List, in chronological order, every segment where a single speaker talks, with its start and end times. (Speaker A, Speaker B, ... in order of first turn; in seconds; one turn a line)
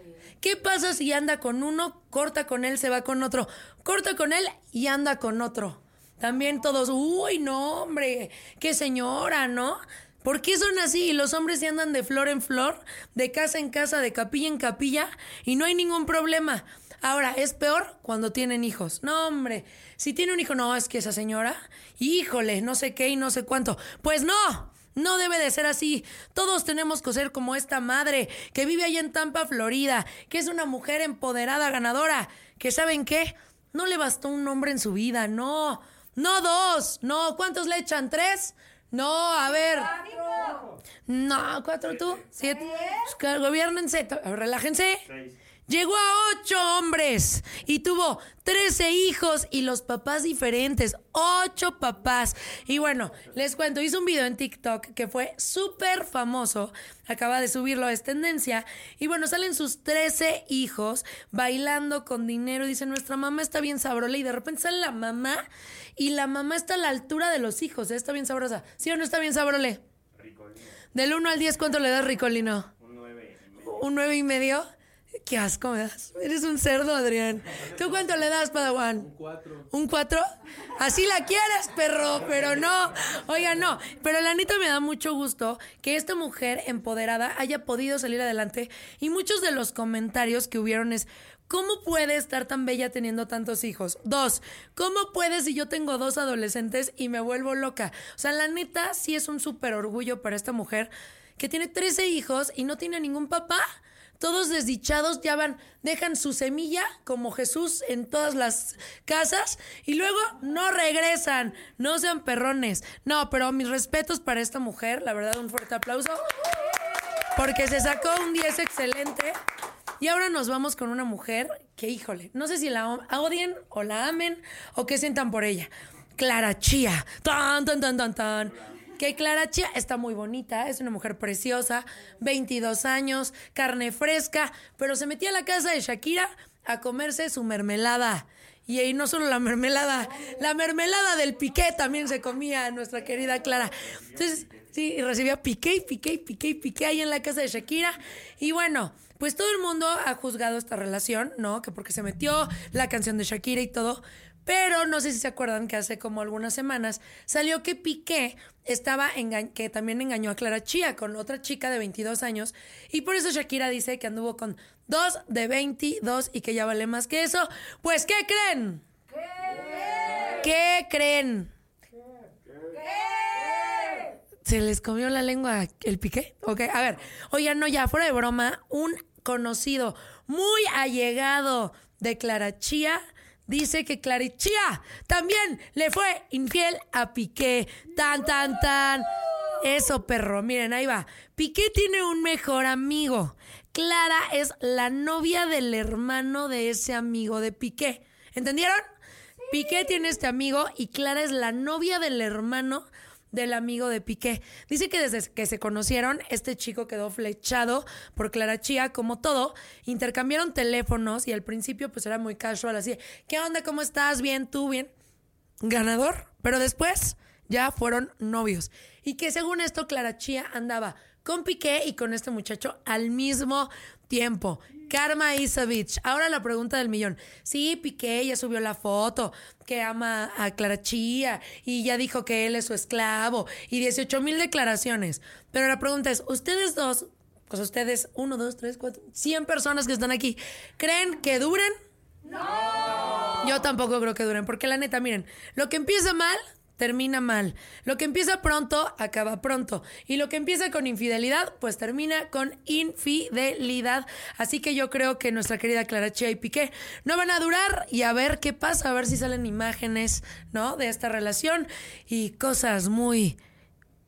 Speaker A: 0.4-40.0
Speaker A: 41.0-45.0
Speaker A: 45.7-69.8
Speaker A: 70.9-72.7
Speaker A: 73.6-74.7
Speaker A: 75.2-79.1
Speaker A: 79.7-80.2
Speaker A: 80.8-103.7
Speaker A: 104.2-116.2
Speaker A: 117.3-119.3
Speaker A: 120.0-168.8
Speaker A: 170.3-171.5
Speaker A: 174.4-189.1
Speaker A: 189.6-198.8
Speaker A: 199.5-214.9
Speaker A: 215.6-241.7
Speaker A: 243.3-263.4